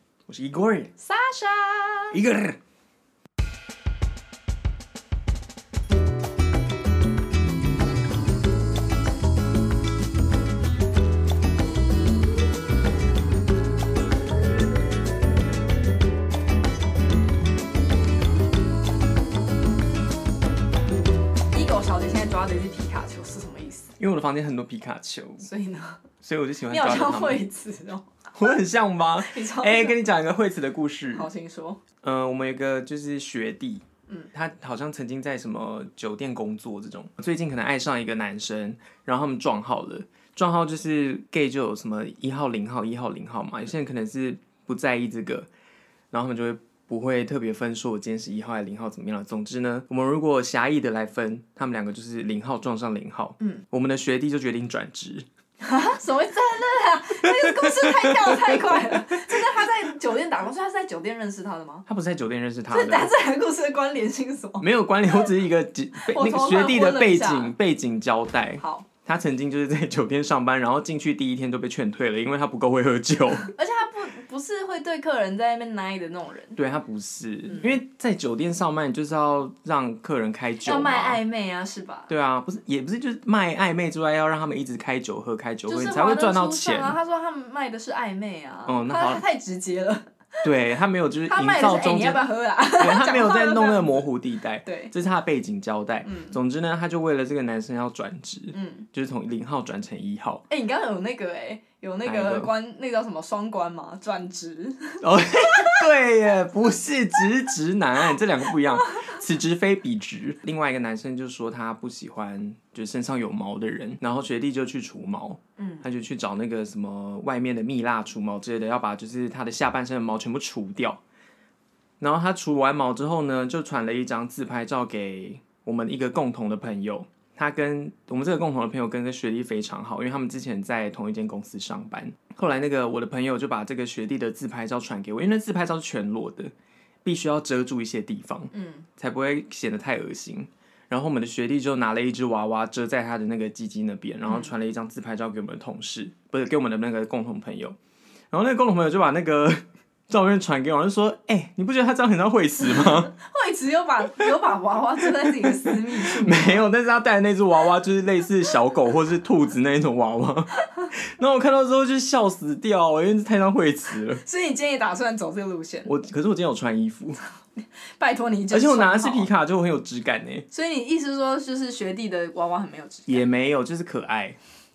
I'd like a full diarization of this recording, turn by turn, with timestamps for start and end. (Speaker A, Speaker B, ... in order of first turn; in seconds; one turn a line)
Speaker A: 0.3-0.9
Speaker B: 1.0-2.2
Speaker A: 2.1-2.6
Speaker B: 21.5-23.9
Speaker A: 24.0-25.5
Speaker B: 25.4-26.0
Speaker A: 26.2-27.4
Speaker B: 26.7-28.1
Speaker A: 28.3-31.3
Speaker B: 29.2-30.0
Speaker B: 31.1-31.8
Speaker A: 32.0-45.5
Speaker A: 46.1-55.2
Speaker B: 55.6-61.9
Speaker A: 57.2-59.9
Speaker A: 61.9-63.1
Speaker B: 62.7-65.3
Speaker A: 64.6-73.5
Speaker B: 66.0-67.5
Speaker B: 68.6-68.8
Speaker B: 73.5-76.6
Speaker A: 76.5-81.2
Speaker B: 80.6-82.1
Speaker A: 82.1-87.0
Speaker B: 85.7-90.4
Speaker A: 88.7-89.2
Speaker A: 90.4-92.2
Speaker B: 91.3-94.0
Speaker A: 92.8-100.4
Speaker B: 94.6-94.9
Speaker B: 96.0-96.3
Speaker B: 98.5-98.8
Speaker B: 100.5-105.8
Speaker A: 102.0-102.5
Speaker A: 105.0-121.0
Speaker B: 115.6-115.8
Speaker A: 122.0-136.5
Speaker A: 137.0-147.8
Speaker B: 138.5-138.9
Speaker B: 144.3-144.5
Speaker A: 148.3-153.1
Speaker B: 152.6-156.6
Speaker A: 155.0-164.2
Speaker B: 164.2-165.9
Speaker A: 165.8-167.2
Speaker B: 167.6-169.3
Speaker A: 168.5-170.4
Speaker B: 170.5-173.2
Speaker A: 173.1-174.4